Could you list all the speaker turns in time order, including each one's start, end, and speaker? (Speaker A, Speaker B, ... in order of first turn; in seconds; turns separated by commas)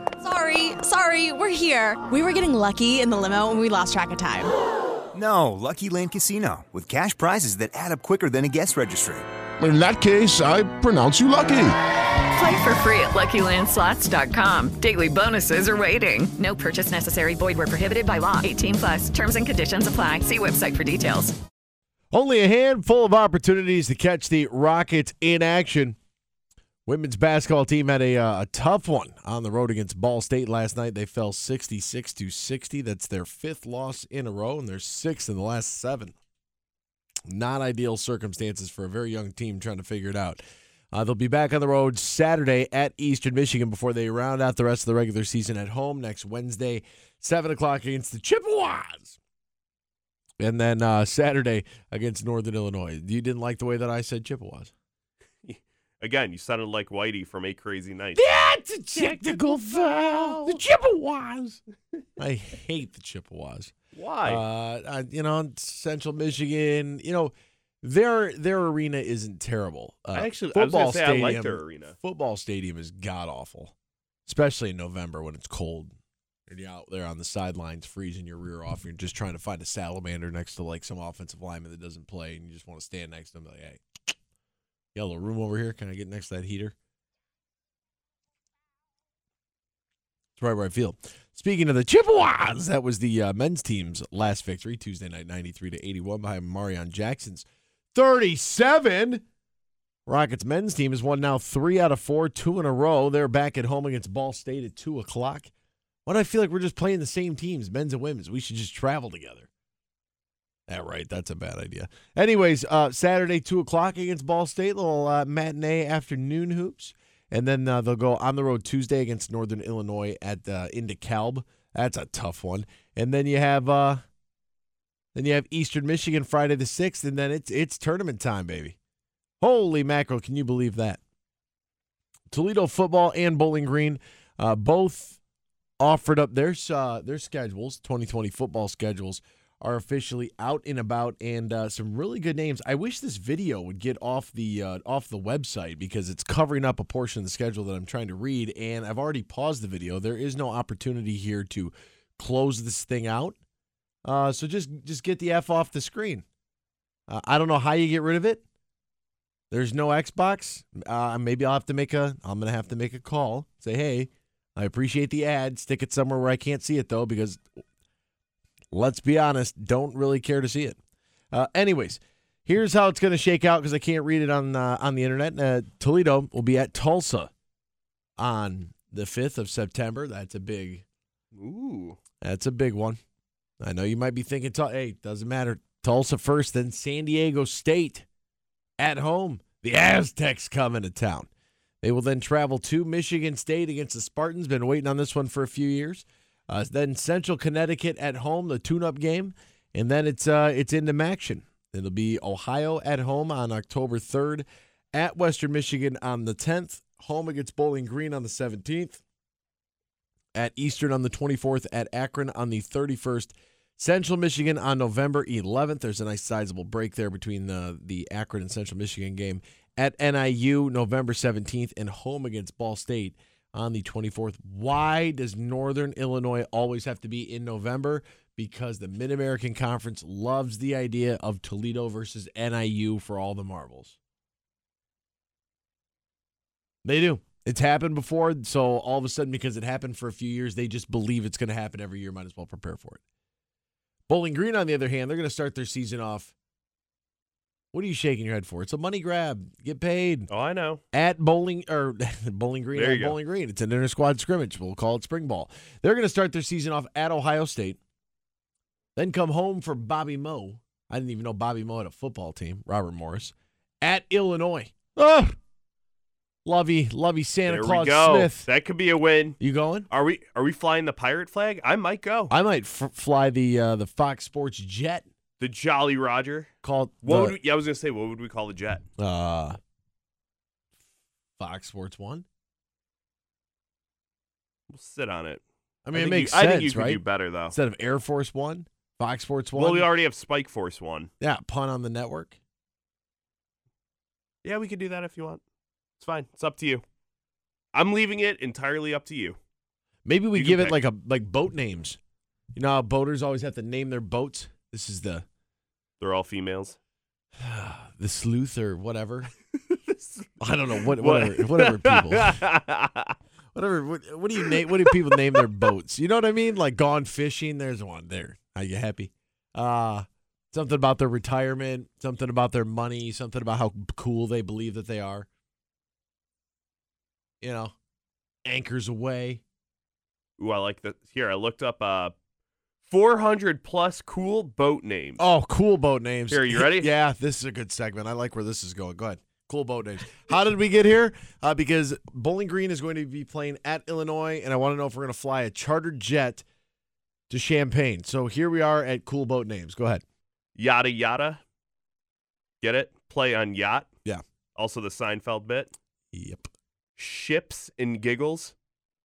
Speaker A: 0.2-4.5, Speaker B: 5.1-9.2, Speaker C: 9.6-11.8, Speaker D: 12.3-21.3, Speaker E: 22.1-25.9, Speaker E: 26.9-36.1, Speaker E: 37.3-40.4, Speaker E: 40.9-49.2, Speaker E: 50.4-54.7, Speaker F: 55.4-58.2, Speaker E: 58.1-61.6, Speaker E: 62.2-63.7, Speaker F: 63.9-64.4, Speaker E: 64.2-73.7, Speaker F: 70.1-71.9, Speaker E: 74.2-75.9, Speaker E: 76.5-83.8, Speaker E: 84.9-86.7, Speaker E: 90.4-99.2, Speaker E: 100.0-105.5, Speaker E: 106.0-109.5, Speaker E: 110.7-124.0, Speaker E: 125.1-128.8, Speaker E: 129.4-131.0, Speaker E: 132.3-135.2, Speaker E: 135.8-153.4, Speaker E: 154.0-156.2, Speaker E: 157.1-158.4, Speaker E: 159.5-167.4, Speaker E: 168.7-170.8, Speaker E: 171.3-177.3, Speaker E: 178.2-180.8, Speaker F: 181.3-182.0, Speaker E: 182.2-183.0, Speaker E: 183.6-188.1, Speaker E: 188.8-191.3, Speaker E: 191.8-209.0, Speaker E: 210.3-234.0, Speaker E: 236.8-243.0, Speaker E: 244.1-246.3, Speaker E: 247.7-250.3, Speaker F: 250.3-250.8, Speaker E: 250.9-257.8, Speaker F: 252.7-253.2, Speaker E: 258.9-265.3, Speaker E: 266.4-268.5, Speaker F: 267.5-269.4, Speaker E: 269.4-269.9, Speaker F: 269.9-272.3, Speaker E: 272.3-275.1, Speaker F: 275.4-276.5, Speaker E: 276.6-277.4, Speaker F: 277.0-278.8, Speaker E: 279.0-279.6, Speaker E: 281.4-282.2, Speaker F: 284.7-287.5, Speaker E: 285.8-289.9, Speaker F: 289.6-291.1, Speaker E: 291.2-292.4, Speaker F: 294.4-295.4, Speaker F: 296.0-296.8, Speaker F: 297.7-299.4, Speaker E: 300.1-302.0, Speaker F: 300.3-300.8, Speaker E: 302.5-305.2, Speaker F: 306.0-306.8, Speaker E: 307.4-309.3, Speaker F: 309.7-310.2, Speaker E: 310.4-312.4, Speaker F: 310.8-313.1, Speaker E: 313.5-325.3, Speaker E: 327.4-327.7, Speaker E: 328.4-329.4, Speaker F: 330.4-332.1, Speaker F: 332.9-335.2, Speaker E: 335.2-346.4, Speaker F: 336.3-336.9, Speaker E: 347.3-350.0, Speaker F: 350.6-351.4, Speaker F: 352.6-353.9, Speaker F: 354.6-355.7, Speaker E: 356.1-356.5, Speaker F: 357.0-358.5